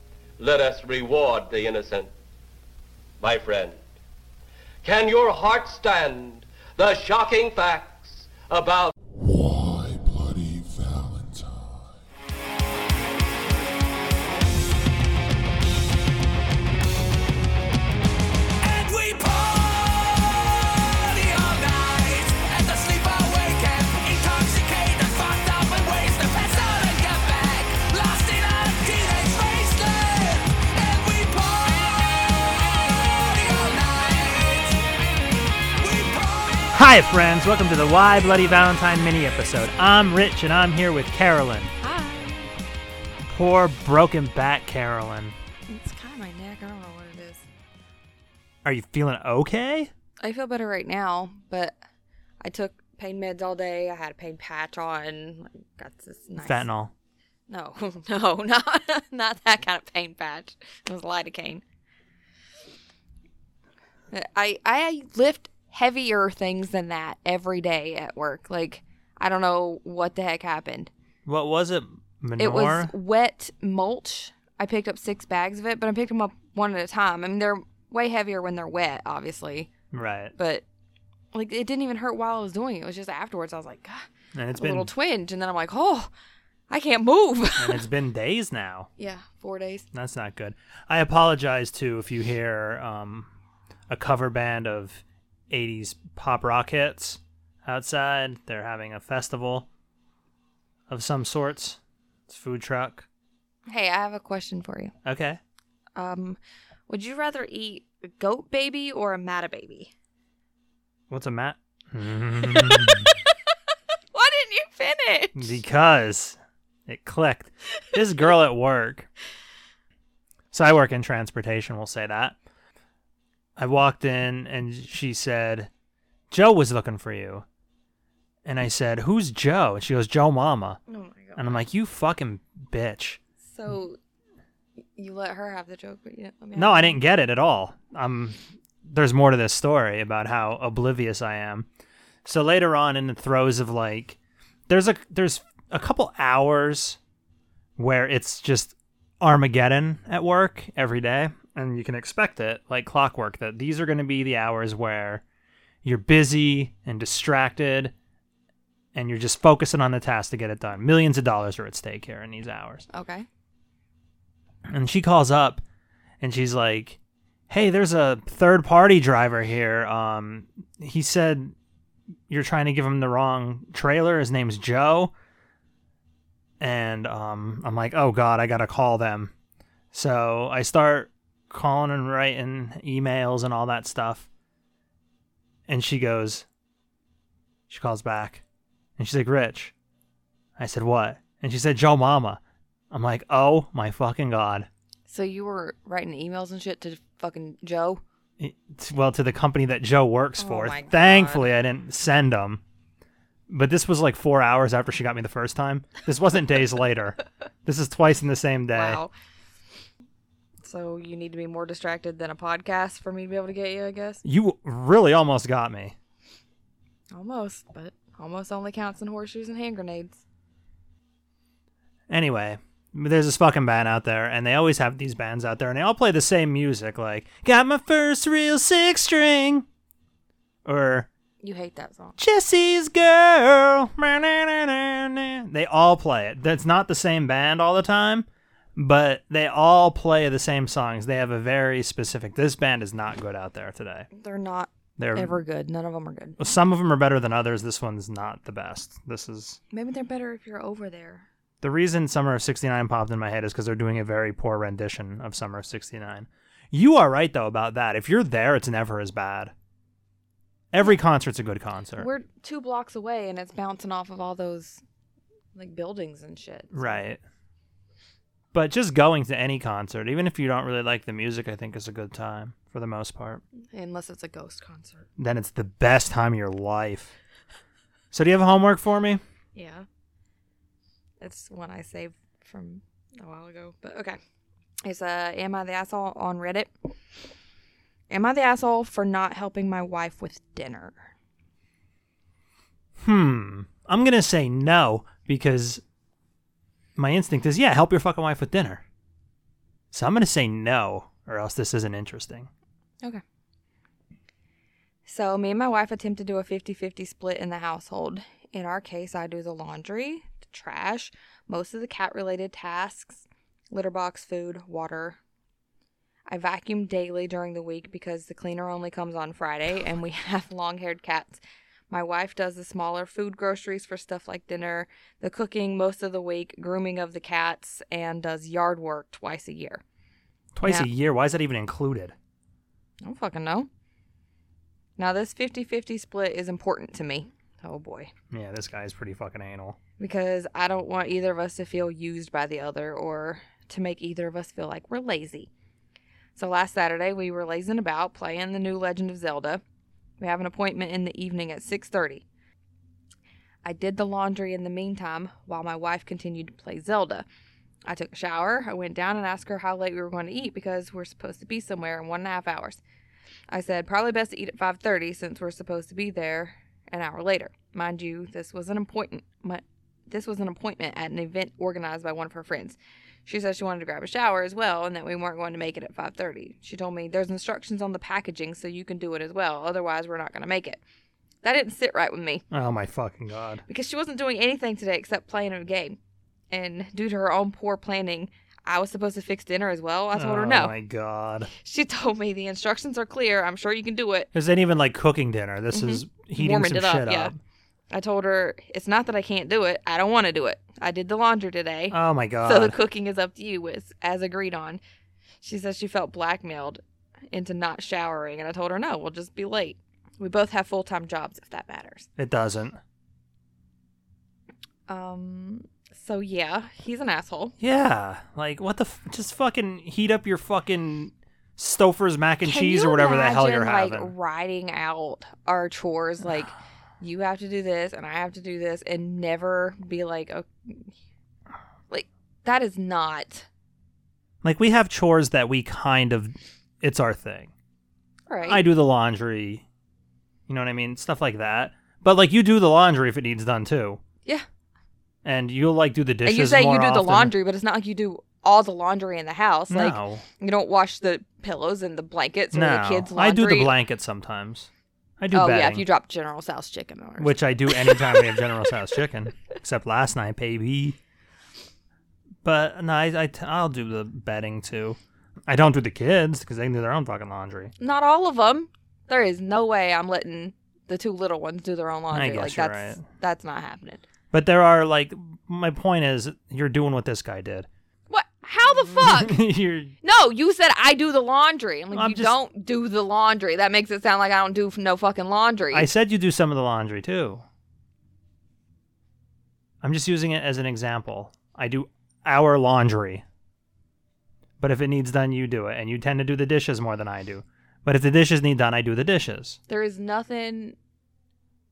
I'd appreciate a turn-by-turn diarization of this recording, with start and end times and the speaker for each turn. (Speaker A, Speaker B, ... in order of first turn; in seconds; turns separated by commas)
Speaker A: 0.4-2.1, Speaker A: 3.2-3.8, Speaker A: 4.8-8.9, Speaker B: 9.2-12.0, Speaker C: 18.6-34.9, Speaker C: 35.8-36.7, Speaker D: 36.7-41.7, Speaker E: 41.8-42.5, Speaker D: 43.3-45.4, Speaker E: 45.7-47.5, Speaker D: 48.6-49.9, Speaker E: 50.2-51.8, Speaker E: 52.4-56.7, Speaker D: 56.4-56.9, Speaker E: 57.5-61.6, Speaker E: 64.1-70.9, Speaker D: 71.3-72.9, Speaker E: 72.4-79.7, Speaker D: 79.9-80.3, Speaker E: 80.4-80.6, Speaker E: 81.3-86.1, Speaker D: 84.3-84.9, Speaker E: 86.7-87.8, Speaker D: 87.6-88.9, Speaker E: 89.0-89.9, Speaker D: 89.9-93.3, Speaker D: 93.9-99.7, Speaker D: 100.9-103.1, Speaker E: 103.7-104.9, Speaker D: 105.0-105.4, Speaker E: 106.0-109.9, Speaker D: 111.1-113.1, Speaker E: 112.4-113.3, Speaker E: 114.1-115.5, Speaker D: 115.3-119.1, Speaker D: 120.5-122.4, Speaker D: 123.6-125.7, Speaker D: 126.3-127.5, Speaker D: 128.5-130.8, Speaker E: 130.9-131.7, Speaker D: 131.4-133.2, Speaker E: 133.4-134.0, Speaker E: 134.9-137.0, Speaker D: 136.6-141.7, Speaker D: 142.2-144.2, Speaker D: 144.7-147.0, Speaker D: 147.8-155.2, Speaker D: 155.8-157.9, Speaker D: 158.9-162.9, Speaker E: 162.9-163.3, Speaker D: 164.7-165.6, Speaker D: 166.2-167.0, Speaker D: 167.5-171.5, Speaker D: 172.3-175.1, Speaker D: 176.6-179.3, Speaker D: 179.9-184.3, Speaker D: 185.7-186.5, Speaker D: 187.7-188.4, Speaker D: 189.0-189.7, Speaker D: 190.6-192.4, Speaker D: 192.9-194.7, Speaker E: 195.1-198.0, Speaker D: 198.4-202.6, Speaker E: 200.4-201.4, Speaker D: 203.5-209.0, Speaker E: 208.7-209.1, Speaker E: 210.6-214.2, Speaker D: 214.2-215.9, Speaker E: 217.1-220.2, Speaker D: 222.1-229.7, Speaker D: 230.7-231.1, Speaker E: 231.4-232.2, Speaker D: 232.2-244.1, Speaker E: 244.1-246.4, Speaker D: 245.0-245.4, Speaker D: 246.4-249.6, Speaker E: 249.7-251.3, Speaker D: 251.6-259.5, Speaker D: 260.7-262.1, Speaker E: 262.0-264.8, Speaker E: 265.6-267.0, Speaker D: 266.7-267.2, Speaker D: 268.5-273.4, Speaker E: 273.7-275.1, Speaker D: 275.2-277.1, Speaker D: 278.1-279.2, Speaker E: 279.6-279.9, Speaker E: 281.2-284.2, Speaker E: 284.8-286.7, Speaker E: 288.1-291.0, Speaker D: 293.0-295.8, Speaker D: 297.0-298.8, Speaker D: 299.9-302.5, Speaker E: 305.1-315.2, Speaker E: 316.3-329.8, Speaker D: 330.6-332.1, Speaker E: 333.0-333.7, Speaker E: 335.0-338.1, Speaker D: 338.3-339.8, Speaker E: 340.0-345.5, Speaker E: 346.4-349.6, Speaker E: 350.2-352.2, Speaker E: 353.6-357.3, Speaker E: 357.9-362.8, Speaker E: 363.5-380.8, Speaker E: 381.4-382.4, Speaker D: 382.5-383.6, Speaker E: 383.7-386.0, Speaker E: 386.5-390.8, Speaker D: 390.1-391.5, Speaker E: 391.5-394.3, Speaker D: 394.3-397.4, Speaker E: 395.7-397.3, Speaker E: 397.9-404.8, Speaker D: 401.9-402.8, Speaker E: 405.4-406.8, Speaker E: 407.3-412.1, Speaker D: 412.2-412.8, Speaker E: 414.9-417.6, Speaker D: 417.6-424.1, Speaker E: 422.4-430.9, Speaker E: 431.9-433.5, Speaker D: 434.4-437.5, Speaker E: 438.3-438.6, Speaker D: 438.4-439.6, Speaker D: 440.5-444.0, Speaker D: 445.2-447.3, Speaker E: 446.2-453.8, Speaker D: 449.7-450.2, Speaker D: 452.5-455.8, Speaker E: 455.3-458.2, Speaker D: 457.2-461.0, Speaker D: 462.4-467.7, Speaker E: 467.8-474.0, Speaker D: 472.1-473.0, Speaker D: 474.3-477.7, Speaker E: 478.1-479.4, Speaker D: 478.7-479.9, Speaker E: 480.0-485.9, Speaker D: 481.9-482.3, Speaker D: 485.7-487.4, Speaker D: 489.8-493.2, Speaker D: 494.6-499.6, Speaker E: 499.7-500.8